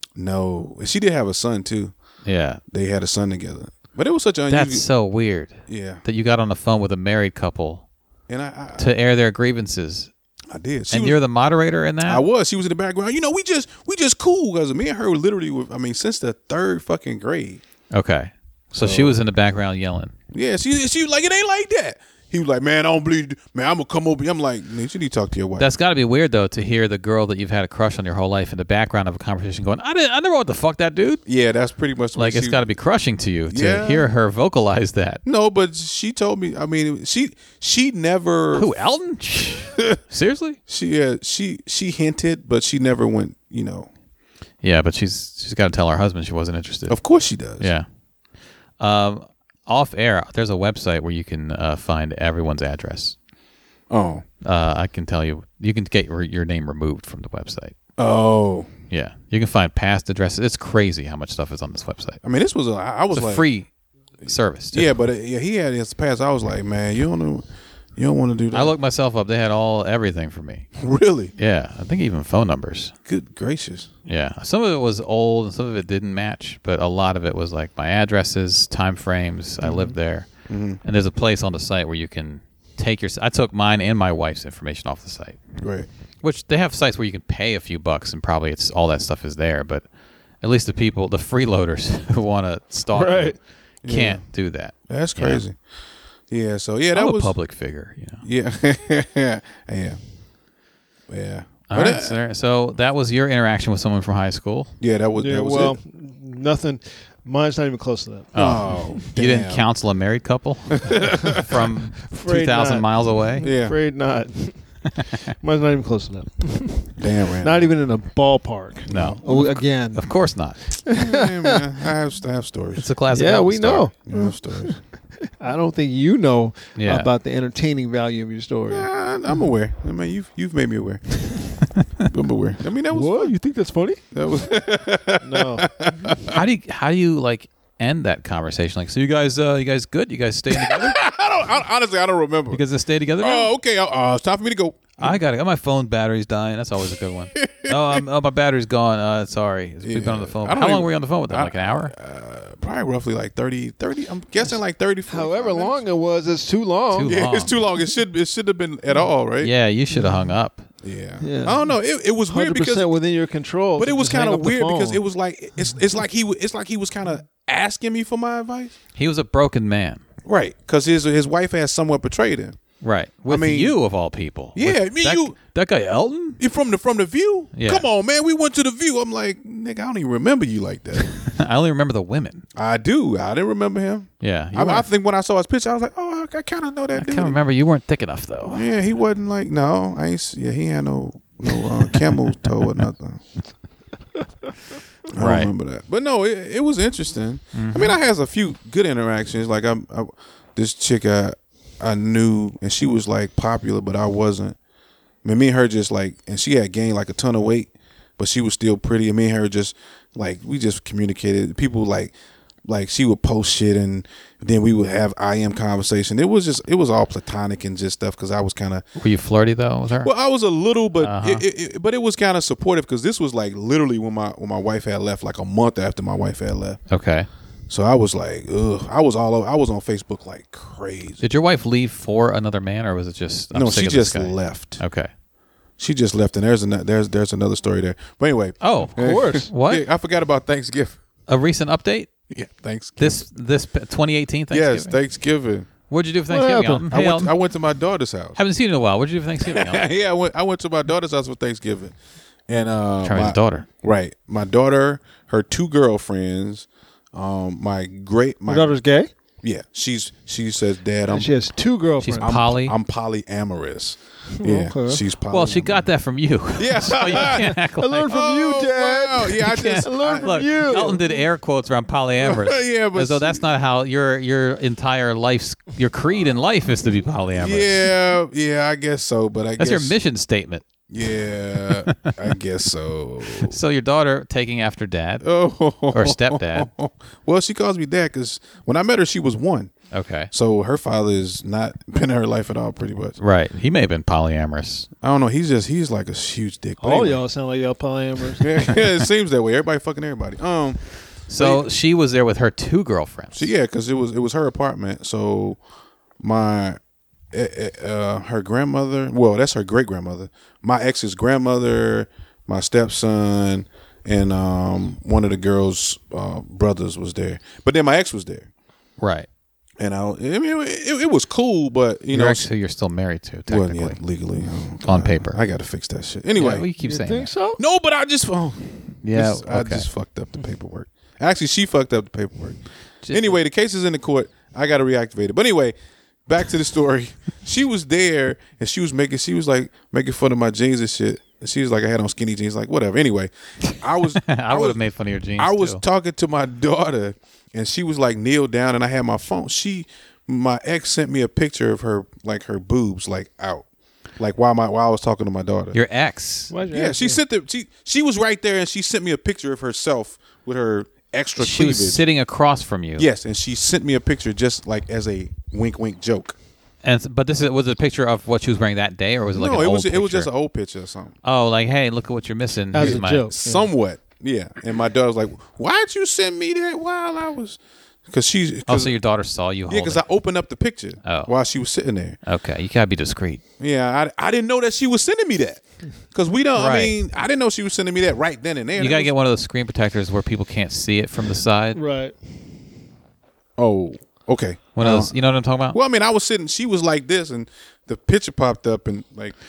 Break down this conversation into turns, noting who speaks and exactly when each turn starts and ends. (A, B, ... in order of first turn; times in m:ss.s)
0:00.2-0:01.9 A
0:02.2-0:02.6 B
0:02.7-0:04.9 A
0:04.5-0:07.8 B
0:05.7-0:06.0 A
0:08.3-0:08.9 A
0:08.8-0:10.1 B
0:10.5-0:11.2 A
0:10.9-0:12.2 B
0:12.0-0:17.6 A
0:17.9-0:20.1 B
0:18.8-0:19.2 A
0:20.3-0:25.7 A
0:25.6-0:31.2 B
0:31.3-0:32.6 A
0:32.2-0:35.2 B
0:33.5-0:34.1 A
0:35.2-0:38.7 A
0:38.6-0:40.6 B
0:40.7-0:43.9 A
0:44.6-0:47.0 B
0:46.9-0:47.7 A
0:47.6-0:47.9 B
0:48.8-0:53.2 B
0:53.9-0:54.2 A
0:54.4-0:57.8 B
0:58.0-0:58.7 A
0:58.9-1:02.2 B
1:02.2-1:03.5 A
1:03.1-1:03.7 B
1:04.2-1:04.9 B
1:04.7-1:08.8 A
1:08.5-1:10.7 B
1:10.8-1:11.3 A
1:11.4-1:12.9 B
1:13.1-1:13.9 A
1:14.1-1:20.3 B
1:20.5-1:20.8 A
1:20.8-1:25.4 B
1:25.6-1:25.9 A
1:26.2-1:29.8 B
1:30.4-1:35.4 B
1:32.9-1:33.4 C
1:33.8-1:34.2 A
1:34.8-1:35.6 A
1:36.3-1:37.4 A
1:36.9-1:38.2 B
1:38.2-1:40.0 A
1:41.1-1:42.2 A
1:41.7-1:44.7 B
1:44.8-1:45.8 A
1:45.2-1:48.3 C
1:48.4-1:49.6 A
1:48.4-1:53.5 B
1:50.8-1:51.6 A
1:52.1-1:54.9 C
1:53.4-1:53.8 A
1:55.4-2:00.1 C
1:57.0-1:57.7 A
1:58.9-2:00.6 B
1:58.9-1:59.4 A
2:00.8-2:01.6 C
2:00.9-2:02.9 A
2:02.8-2:03.9 B
2:03.1-2:04.8 C
2:04.1-2:04.8 A
2:05.4-2:08.9 C
2:06.8-2:07.1 B
2:08.7-2:11.3 A
2:12.0-2:13.3 A
2:12.9-2:14.0 C
2:14.1-2:16.4 A
2:15.2-2:16.1 C
2:16.3-2:21.0 B
2:20.5-2:22.6 A
2:22.5-2:23.5 B
2:23.2-2:25.2 A
2:25.0-2:31.9 B
2:27.4-2:28.0 A
2:29.8-2:35.8 A
2:35.1-2:37.2 C
2:36.9-2:37.6 B
2:37.0-2:39.5 A
2:39.4-2:40.7 B
2:39.9-2:40.2 C
2:40.8-2:42.9 A
2:41.2-2:41.7 C
2:42.3-2:45.0 C
2:43.8-2:48.8 A
2:49.0-2:50.0 B
2:50.3-2:52.6 A
2:52.8-2:56.4 B
2:53.3-2:53.8 A
2:54.6-2:55.4 A
2:56.4-3:01.1 A
2:57.5-2:57.9 B
3:01.2-3:02.5 B
3:02.6-3:07.4 A
3:04.2-3:04.9 B
3:07.0-3:08.6 B
3:08.5-3:13.2 A
3:15.1-3:24.6 A
3:15.2-3:15.5 B
3:17.5-3:18.0 B
3:25.2-3:32.1 A
3:32.7-3:38.8 A
3:39.0-3:40.1 B
3:40.0-3:46.8 A
3:41.0-3:41.4 B
3:46.9-3:47.3 B
3:47.7-3:51.2 A
3:51.2-3:55.1 B
3:53.5-3:54.8 A
3:55.8-4:01.0 A
3:58.6-3:59.8 B
3:59.0-3:59.5 C
4:01.3-4:02.1 B
4:02.3-4:03.2 A
4:03.0-4:05.0 B
4:04.5-4:05.7 A
4:05.9-4:07.3 B
4:06.3-4:06.9 C
4:06.9-4:08.4 A
4:08.4-4:09.9 B
4:09.4-4:12.0 A
4:12.5-4:18.8 A
4:13.0-4:13.7 B
4:18.5-4:19.1 C
4:19.4-4:21.3 A
4:21.1-4:22.3 C
4:22.0-4:22.8 B
4:22.2-4:25.9 A
4:24.4-4:25.0 C
4:25.3-4:28.1 B
4:26.6-4:31.1 A
4:27.2-4:31.1 C
4:29.4-4:37.8 B
4:32.2-4:33.5 A
4:37.4-4:40.0 A
4:39.6-4:40.6 B
4:40.9-4:43.6 A
4:41.7-4:42.2 B
4:43.3-4:45.3 B
4:45.2-4:49.7 A
4:45.9-4:46.7 B
4:49.9-4:50.3 B
4:50.3-4:53.2 A
4:53.2-4:54.9 B
4:55.0-4:57.2 A
4:56.8-4:58.7 C
4:58.4-5:01.6 A
5:01.3-5:03.5 B
5:03.3-5:05.6 A
5:06.2-5:06.8 A
5:07.3-5:18.5 A
5:19.0-5:19.3 B
5:19.8-5:22.5 A
5:22.1-5:24.0 B
5:23.5-5:26.7 A
5:24.8-5:25.4 B
5:26.4-5:27.3 B
5:26.8-5:27.6 C
5:27.6-5:32.6 A
5:29.0-5:29.9 B
5:33.0-5:33.4 B
5:33.1-5:35.8 A
5:36.3-5:44.8 A
5:43.7-5:45.8 B
5:45.4-5:53.7 A
5:54.2-5:55.8 A
5:55.7-5:56.5 B
5:56.5-5:57.2 C
5:56.7-6:02.0 A
6:01.4-6:03.1 B
6:03.0-6:06.4 A
6:06.8-6:10.3 B
6:09.3-6:11.2 A
6:11.2-6:13.3 B
6:12.7-6:13.7 C
6:12.8-6:19.0 A
6:18.7-6:20.0 B
6:19.7-6:22.2 A
6:21.0-6:21.3 B
6:22.3-6:23.4 B
6:23.6-6:29.1 A
6:26.6-6:27.0 B
6:28.8-6:31.8 B
6:31.7-6:32.4 C
6:33.6-6:39.4 A
6:34.8-6:35.8 B